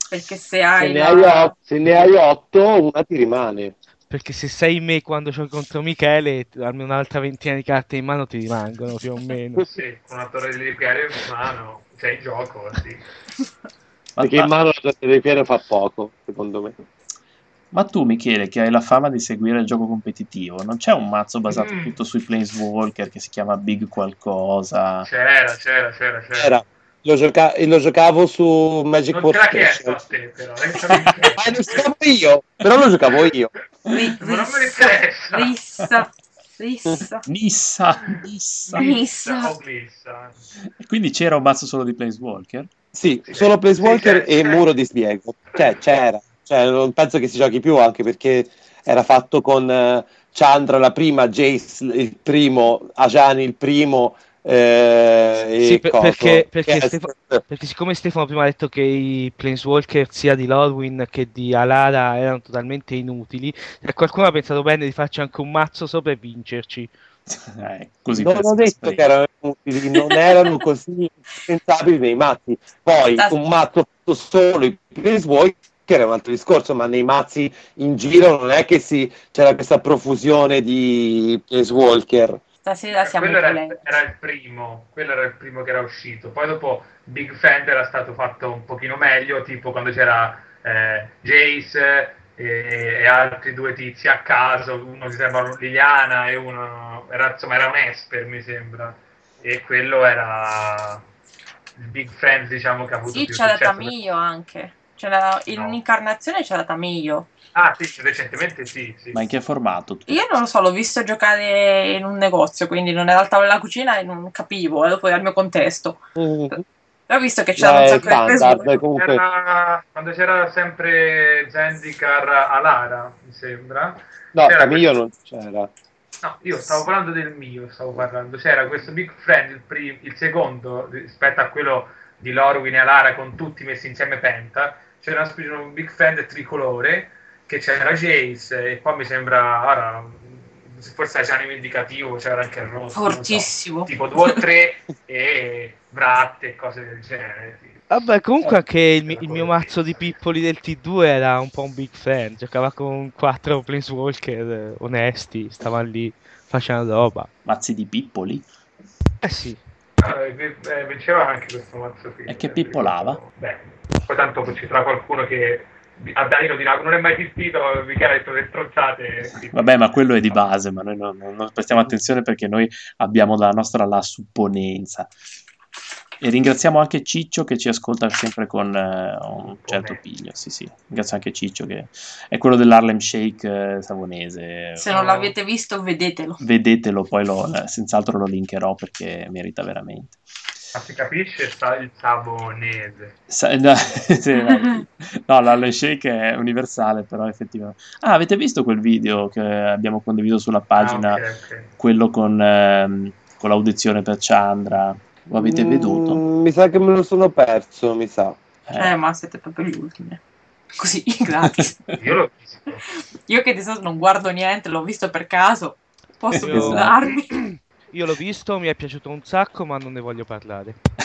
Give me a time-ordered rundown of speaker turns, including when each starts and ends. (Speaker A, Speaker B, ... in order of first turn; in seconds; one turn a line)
Speaker A: 0.1-1.5
Speaker B: 0.8-3.8
Speaker C: 4.1-9.7
Speaker D: 9.6-13.0
Speaker E: 14.2-14.5
Speaker B: 14.2-16.8
Speaker E: 17.7-25.1
Speaker D: 21.5-22.0
Speaker D: 25.0-26.7
Speaker B: 26.3-30.0
Speaker D: 29.1-31.7
Speaker E: 30.9-31.3
Speaker B: 31.4-33.5
Speaker A: 33.9-37.2
Speaker D: 34.2-35.5
Speaker E: 35.8-36.1
Speaker E: 37.3-38.9
Speaker D: 38.7-40.4
Speaker A: 38.8-39.6
Speaker E: 40.8-42.7
Speaker B: 42.9-57.4
Speaker D: 43.3-44.7
Speaker D: 45.5-45.9
Speaker C: 55.6-66.9
Speaker E: 67.3-69.0
Speaker B: 68.1-82.4
Speaker A: 82.6-83.9
Speaker D: 83.0-101.0
Speaker D: 101.8-104.0
Speaker A: 103.1-107.3
Speaker D: 105.5-105.8
Speaker D: 107.5-109.2
Speaker E: 109.1-110.2
Speaker A: 110.1-118.7
Speaker B: 116.2-116.6
Speaker B: 117.6-119.2
Speaker D: 118.0-125.0
Speaker B: 124.3-125.7
Speaker D: 126.2-147.9
Speaker A: 142.9-144.4
Speaker C: 147.9-157.3
Speaker D: 148.4-150.1
Speaker E: 157.5-158.5
Speaker C: 159.2-159.6
Speaker D: 160.0-169.8
Speaker E: 162.3-163.2
Speaker E: 169.5-175.1
Speaker E: 176.2-185.3
Speaker D: 179.6-180.0
Speaker A: 184.8-186.4
Speaker E: 186.4-190.2
Speaker D: 190.8-193.2
Speaker E: 193.3-201.2
Speaker D: 200.8-201.7
Speaker E: 201.8-206.2
Speaker B: 205.4-208.4
Speaker E: 208.7-208.9
Speaker A: 208.8-210.2
Speaker A: 210.8-211.8
Speaker E: 211.4-212.2
Speaker D: 211.9-212.8
Speaker A: 213.3-217.3
Speaker E: 216.3-216.9
Speaker C: 216.4-220.8